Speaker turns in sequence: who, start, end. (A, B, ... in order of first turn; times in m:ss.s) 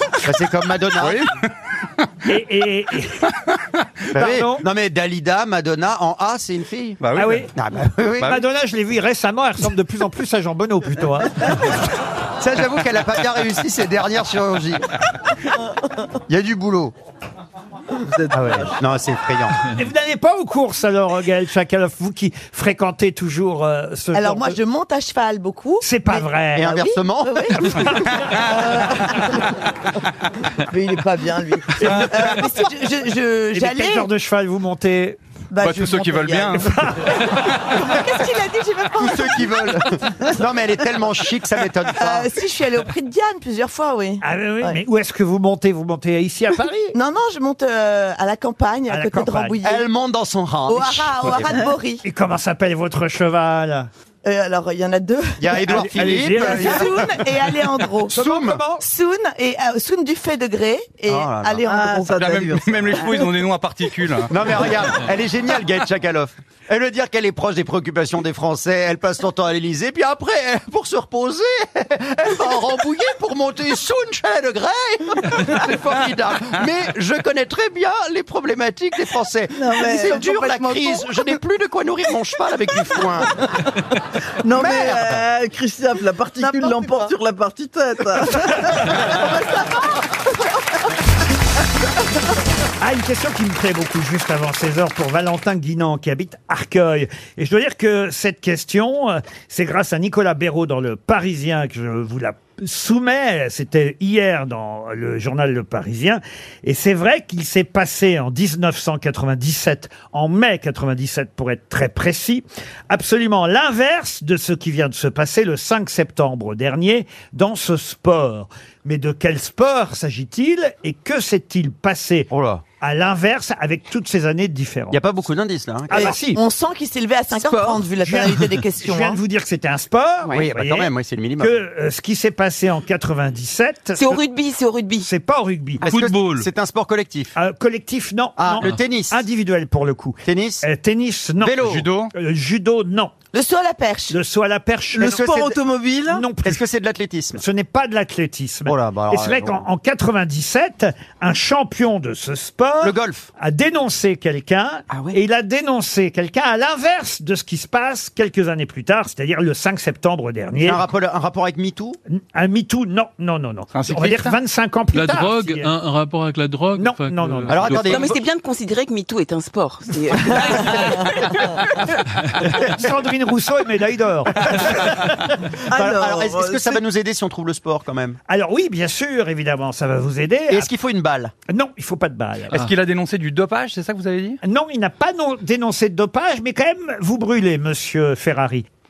0:00.2-0:01.2 A
0:01.0-0:01.4 B
0:02.2-0:03.3 C
0:04.1-0:08.4 A
0:04.1-0:04.6 C
0:07.0-0:07.4 B
0:07.2-0:07.5 C
0:08.2-0:11.6 C
0:12.4-0:14.8 A
0:16.3-0:16.9 A
0:18.0-0:18.7 D
0:18.3-0:19.6 A
0:19.7-0:24.6 C
0:24.1-0:29.6 E
0:25.8-0:26.7 C
0:26.6-0:28.0 A
0:30.6-0:34.1 E
0:31.8-0:32.4 C
0:33.5-0:35.2 C
0:35.5-0:40.4 E
0:35.6-0:37.4 B
0:36.6-0:37.5 C
0:39.0-0:42.3 A
0:41.9-0:44.8 E
0:44.2-0:47.0 C
0:46.9-0:49.8 E
0:48.9-0:49.6 C
0:49.6-0:51.6 A
0:50.7-0:52.0 E
0:52.0-0:53.9 C
0:54.2-0:58.2 E
0:55.4-0:57.2 A
0:55.7-0:57.0 C
0:58.1-0:58.6 A
0:58.1-0:58.8 C
0:58.8-1:02.3 E
1:01.1-1:01.6 A
1:01.6-1:03.1 D
1:02.1-1:04.3 B
1:04.3-1:23.3 A
1:19.5-1:20.8 D
1:19.8-1:21.0 E
1:24.4-1:29.3 D
1:24.5-1:25.2 A
1:26.4-1:27.1 E
1:29.0-1:29.3 E
1:32.8-2:05.0 C
2:02.3-2:02.6 A
2:04.9-2:06.2 A
2:05.9-2:06.4 C
2:05.9-2:09.2 E
2:07.3-2:07.8 D
2:08.0-2:14.2 C
2:10.3-2:11.6 A
2:14.0-2:15.1 F
2:15.0-2:15.9 C
2:15.8-2:16.5 G
2:15.8-2:17.3 A
2:17.4-2:23.1 C
2:18.4-2:19.2 A
2:20.2-2:20.6 A
2:21.4-2:21.9 A
2:21.6-2:22.1 B
2:23.3-2:24.2 E
2:24.1-2:25.4 C
2:24.9-2:26.2 D
2:25.1-2:25.6 A
2:26.1-2:26.6 C
2:26.4-2:27.4 A
2:27.4-2:40.8 C
2:28.6-2:29.7 A
2:32.8-2:33.3 A
2:34.9-2:35.2 F
2:40.6-2:42.0 A
2:42.1-2:45.7 C
2:43.7-2:44.4 B
2:44.9-2:48.1 G
2:46.8-2:47.7 C
2:47.5-2:48.1 A
2:47.8-2:51.6 F
2:52.5-2:55.2 C
2:55.7-2:56.8 D
2:55.7-2:58.2 A
2:58.3-3:00.7 C
3:00.5-3:01.3 A
3:01.5-3:02.6 C
3:02.5-3:04.4 B
3:04.4-3:08.6 C